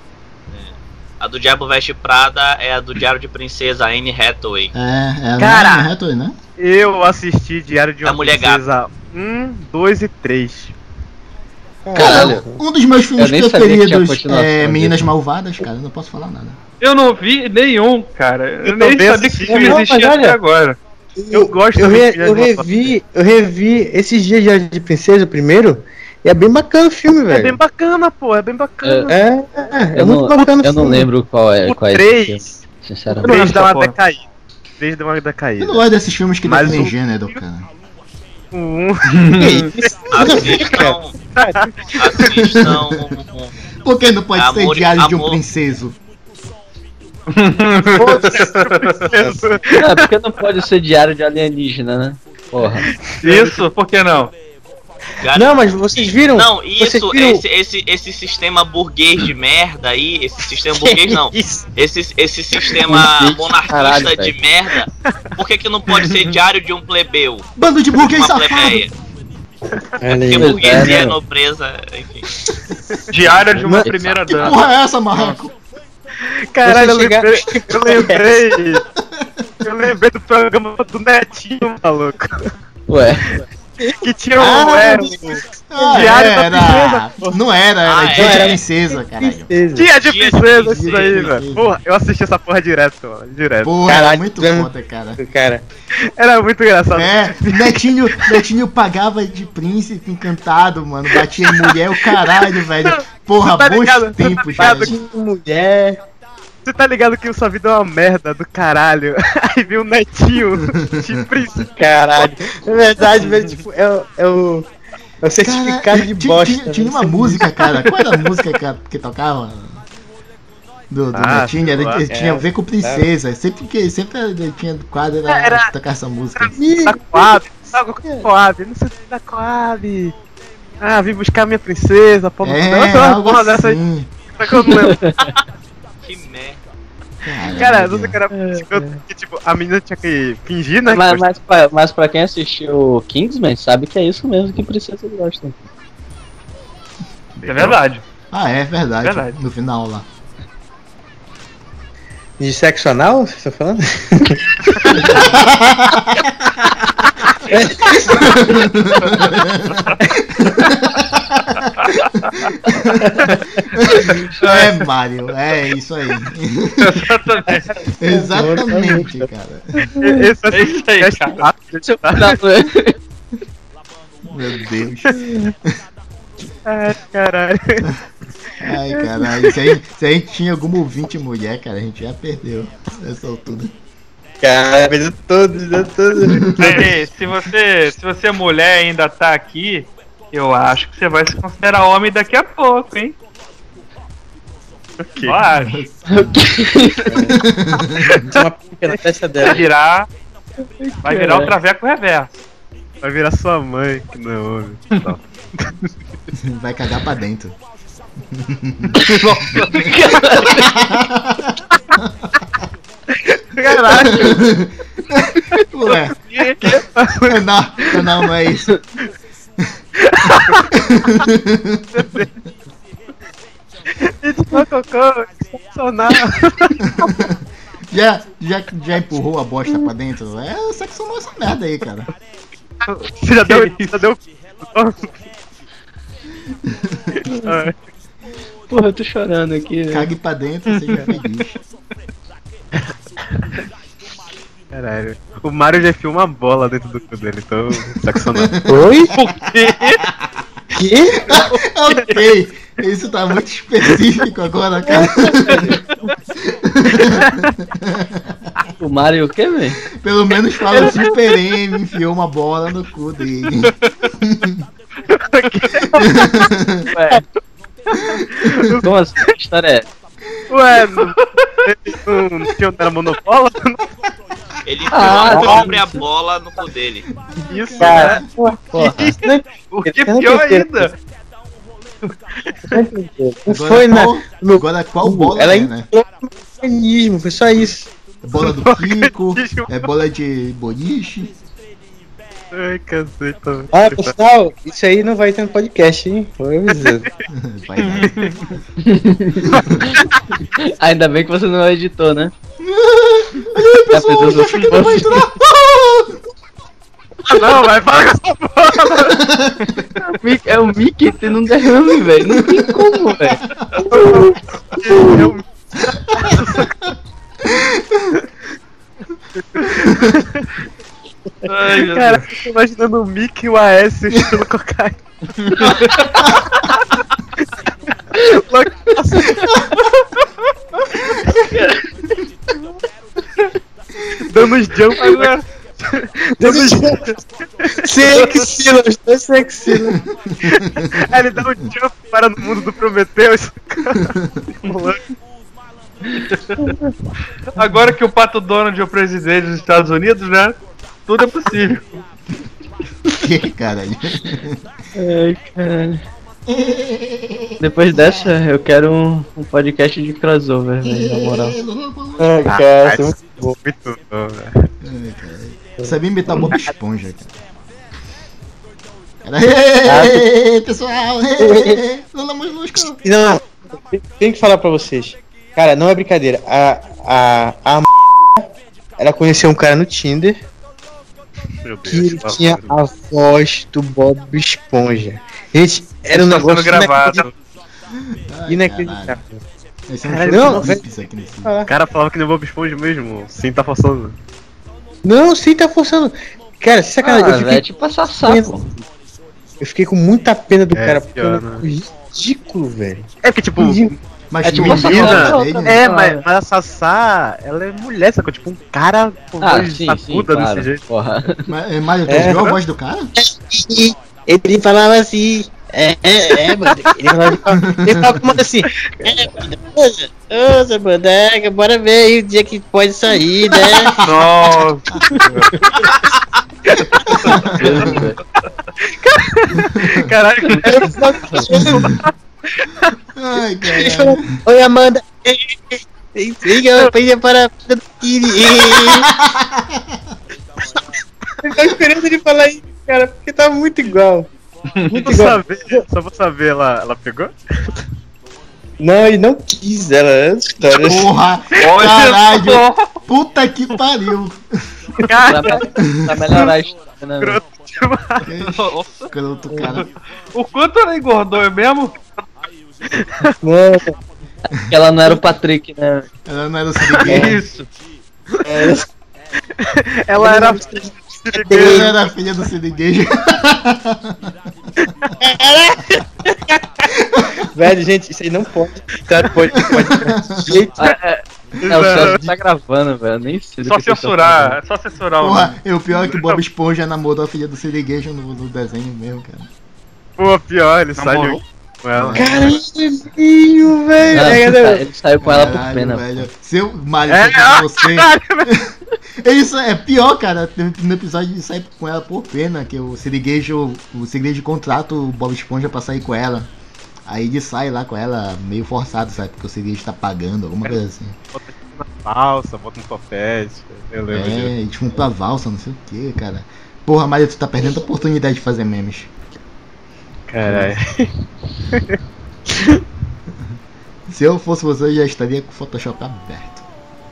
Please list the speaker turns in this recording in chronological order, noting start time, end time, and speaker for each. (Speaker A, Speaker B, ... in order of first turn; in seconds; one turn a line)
Speaker A: 0.5-4.7
Speaker B: 4.7-6.3
Speaker C: 5.4-5.9
Speaker C: 6.6-10.7
Speaker A: 8.0-8.6
Speaker D: 11.8-12.6
Speaker B: 11.9-16.6
Speaker E: 11.9-12.4
Speaker E: 13.2-15.1
Speaker F: 16.8-20.8
Speaker C: 18.6-19.9
Speaker D: 19.4-20.4
Speaker D: 21.2-27.6
Speaker C: 21.3-23.0
Speaker C: 27.3-29.2
Speaker E: 28.8-29.1
Speaker D: 29.1-31.0
Speaker E: 29.9-33.4
Speaker C: 31.6-32.6
Speaker F: 33.2-34.0
Speaker C: 33.2-34.2
Speaker C: 34.8-35.9
Speaker B: 35.6-37.7
Speaker C: 36.4-36.9
Speaker C: 38.5-40.7
Speaker F: 39.1-39.7
Speaker D: 39.8-41.5
Speaker A: 40.1-41.1
Speaker C: 41.4-42.0
Speaker A: 41.9-43.5
Speaker B: 42.3-43.1
Speaker B: 43.8-46.0
Speaker A: 44.3-45.4
Speaker F: 47.3-49.3
Speaker D: 48.0-48.5
Speaker C: 48.3-50.0
Speaker E: 49.7-52.9
Speaker F: 53.2-54.3
Speaker C: 53.2-53.6
Speaker A: 55.2-68.9
Speaker D: 55.3-57.4
Speaker D: 60.7-61.6
Speaker E: 62.9-64.3
Speaker B: 67.6-68.8
Speaker D: 70.0-71.0
Speaker A: 70.3-72.3
Speaker E: 70.3-71.2
Speaker F: 73.1-74.6
Speaker D: 73.6-73.9
Speaker B: 74.1-75.5
Speaker F: 75.1-75.4
Speaker C: 76.2-78.8
Speaker D: 76.6-78.5
Speaker C: 79.6-82.5
Speaker E: 82.9-83.3
Speaker D: 83.8-86.8
Speaker C: 84.0-87.3
Speaker B: 85.7-89.5
Speaker A: 87.8-88.6
Speaker D: 88.1-89.9
Speaker C: 89.7-93.8
Speaker A: 90.0-91.3
Speaker B: 90.7-91.7
Speaker B: 93.6-95.2
Speaker D: 93.8-95.7
Speaker C: 96.1-97.7
Speaker B: 96.9-105.0
Speaker C: 103.4-104.9
Speaker D: 104.5-106.0
Speaker C: 106.6-112.5
Speaker B: 110.7-111.2
Speaker D: 111.8-114.7
Speaker D: 115.2-117.9
Speaker B: 115.4-119.8
Speaker B: 120.9-126.5
Speaker C: 121.1-122.0
Speaker D: 122.1-123.1
Speaker C: 125.3-125.7
Speaker C: 126.4-130.1
Speaker D: 126.5-128.3
Speaker C: 130.8-133.8
Speaker B: 132.4-134.1
Speaker C: 134.3-135.1
Speaker E: 134.5-135.3
Speaker A: 136.0-136.6
Speaker B: 137.2-138.2
Speaker C: 137.4-141.3
Speaker E: 138.3-139.0
Speaker E: 140.9-145.6
Speaker C: 147.4-147.8
Speaker F: 147.4-148.0
Speaker B: 148.3-150.1
Speaker F: 149.0-149.4
Speaker D: 152.4-155.2
Speaker B: 154.9-156.8
Speaker D: 157.5-158.2
Speaker B: 158.0-161.5
Speaker F: 159.2-160.0
Speaker F: 161.6-162.5
Speaker B: 162.8-163.2
Speaker B: 163.8-167.1
Speaker F: 164.4-164.8
Speaker F: 166.8-167.7
Speaker D: 167.5-169.3
Speaker B: 167.9-169.9
Speaker C: 170.0-172.4
Speaker F: 170.5-171.5
Speaker E: 171.8-172.9
Speaker B: 174.3-175.2
Speaker C: 176.7-177.8
Speaker B: 178.6-183.7
Speaker D: 184.4-186.8
Speaker B: 186.3-186.8
Speaker F: 186.5-193.1
Speaker C: 195.0-195.4
Speaker F: 195.2-195.8
Speaker B: 195.5-196.5
Speaker E: 196.1-197.3
Speaker B: 197.3-198.3
Speaker D: 198.3-199.6
Speaker F: 199.4-200.1
Speaker E: 200.8-201.6
Speaker F: 201.0-202.4
Speaker C: 203.0-205.7
Speaker B: 206.4-207.6
Speaker B: 208.3-209.0
Speaker F: 209.1-209.9
Speaker E: 209.7-210.7
Speaker B: 210.4-212.3
Speaker C: 213.4-214.5
Speaker B: 213.9-218.8
Speaker F: 216.3-216.8
Speaker C: 216.4-217.4
Speaker C: 220.2-220.6
Speaker B: 220.7-222.1
Speaker C: 221.9-222.3
Speaker C: 224.0-226.8
Speaker B: 226.8-232.1
Speaker C: 233.1-235.3
Speaker F: 233.4-233.9
Speaker B: 236.7-237.2
Speaker C: 237.4-237.8
Speaker E: 238.7-240.1
Speaker B: 239.9-241.6
Speaker F: 240.7-241.2
Speaker C: 244.7-248.6
Speaker D: 248.7-249.1
Speaker F: 249.1-250.0
Speaker D: 250.7-251.3
Speaker B: 251.2-255.8
Speaker B: 256.6-258.3
Speaker E: 258.8-259.8
Speaker B: 260.0-264.6
Speaker C: 265.1-265.9
Speaker B: 266.0-266.8
Speaker E: 266.9-267.2
Speaker B: 268.1-268.7
Speaker C: 268.3-268.8
Speaker E: 268.8-269.9
Speaker C: 270.5-271.1
Speaker F: 270.9-271.7
Speaker C: 271.6-273.9
Speaker A: 274.6-277.1
Speaker E: 274.9-276.0
Speaker C: 275.1-275.7
Speaker B: 277.3-278.3
Speaker C: 277.5-278.1
Speaker D: 277.8-278.6
Speaker E: 278.7-279.1
Speaker C: 278.7-279.2
Speaker D: 279.2-280.9
Speaker F: 279.6-280.9
Speaker D: 282.7-287.9
Speaker B: 283.5-285.9
Speaker B: 288.2-291.3
Speaker C: 288.4-289.9
Speaker C: 292.5-294.1
Speaker D: 293.7-297.1
Speaker C: 296.8-297.1
Speaker B: 297.3-298.3
Speaker F: 297.8-298.6
Speaker E: 298.8-302.3
Speaker B: 302.6-306.1
Speaker E: 303.9-305.3
Speaker C: 307.3-309.3
Speaker B: 309.1-309.8
Speaker E: 310.2-314.4
Speaker B: 312.3-312.8
Speaker C: 313.9-316.9
Speaker E: 314.9-315.2
Speaker B: 317.4-318.1
Speaker C: 319.6-320.2
Speaker B: 319.7-320.1
Speaker F: 321.4-322.4
Speaker C: 321.8-325.1
Speaker F: 325.4-326.4
Speaker C: 328.1-329.4
Speaker B: 329.4-329.7
Speaker C: 334.3-338.3
Speaker F: 334.9-335.4
Speaker D: 336.4-337.1
Speaker D: 337.8-340.0
Speaker F: 338.1-338.4
Speaker B: 340.3-341.0
Speaker C: 340.8-345.0
Speaker F: 346.3-346.8
Speaker F: 347.5-352.0
Speaker B: 353.1-354.6
Speaker E: 354.9-356.0
Speaker B: 356.5-358.2
Speaker E: 357.6-361.6
Speaker B: 360.8-362.5
Speaker D: 362.2-363.6
Speaker C: 362.5-364.7
Speaker B: 364.8-367.3
Speaker B: 369.2-373.0
Speaker D: 369.9-370.3
Speaker D: 371.4-371.8
Speaker D: 373.0-380.4
Speaker C: 381.6-382.8
Speaker D: 381.9-387.2
Speaker F: 386.1-387.3
Speaker B: 388.3-389.2
Speaker D: 388.5-389.4
Speaker B: 389.9-391.5
Speaker D: 390.1-390.9
Speaker C: 390.3-390.7
Speaker D: 391.4-391.7
Speaker C: 391.7-394.2
Speaker D: 395.1-397.6
Speaker E: 397.0-398.7
Speaker D: 398.2-398.5
Speaker D: 399.6-403.9
Speaker C: 400.7-401.6
Speaker C: 403.2-404.0
Speaker B: 404.3-405.8
Speaker E: 404.4-406.2
Speaker C: 404.5-410.8
Speaker E: 409.4-411.4
Speaker B: 411.5-413.1
Speaker D: 412.1-412.6
Speaker D: 413.2-424.0
Speaker B: 417.6-418.2
Speaker B: 423.6-424.3
Speaker F: 424.0-425.9
Speaker B: 427.1-428.1
Speaker F: 427.2-427.5
Speaker E: 427.5-428.2
Speaker C: 429.0-432.1
Speaker B: 429.6-430.1
Speaker F: 430.4-430.7
Speaker D: 430.6-431.9
Speaker B: 431.6-431.9
Speaker C: 432.6-432.9
Speaker B: 433.1-434.4
Speaker D: 433.7-439.1
Speaker B: 438.9-440.1
Speaker D: 441.4-444.3
Speaker F: 444.8-445.2
Speaker D: 444.9-445.8
Speaker C: 445.0-447.3
Speaker D: 448.8-451.1
Speaker B: 450.7-454.7
Speaker F: 451.6-452.9
Speaker C: 455.0-455.7
Speaker E: 455.3-457.4
Speaker B: 455.8-456.0
Speaker C: 457.2-458.2
Speaker B: 458.2-459.9
Speaker F: 458.4-459.1
Speaker D: 459.5-459.8
Speaker F: 459.6-462.3
Speaker D: 463.4-463.9
Speaker E: 464.5-466.1
Speaker B: 466.3-467.4
Speaker F: 467.0-467.7
Speaker D: 467.1-467.4
Speaker D: 468.4-468.9
Speaker C: 469.6-471.9
Speaker D: 470.1-471.9
Speaker B: 471.6-474.3
Speaker D: 475.2-476.8
Speaker D: 477.5-480.9
Speaker B: 479.6-480.6
Speaker E: 480.8-484.6
Speaker C: 481.6-482.3
Speaker F: 483.6-485.6
Speaker B: 485.2-489.5
Speaker C: 485.9-486.4
Speaker C: 490.2-492.5
Speaker F: 490.9-491.4
Speaker B: 491.9-492.6
Speaker D: 492.2-494.9
Speaker B: 494.1-494.4
Speaker E: 494.1-496.2
Speaker B: 495.2-506.5
Speaker C: 497.1-498.6
Speaker B: 507.1-511.1
Speaker C: 511.3-514.5
Speaker B: 514.1-519.1
Speaker C: 520.3-521.1
Speaker B: 520.5-520.7
Speaker B: 524.1-526.6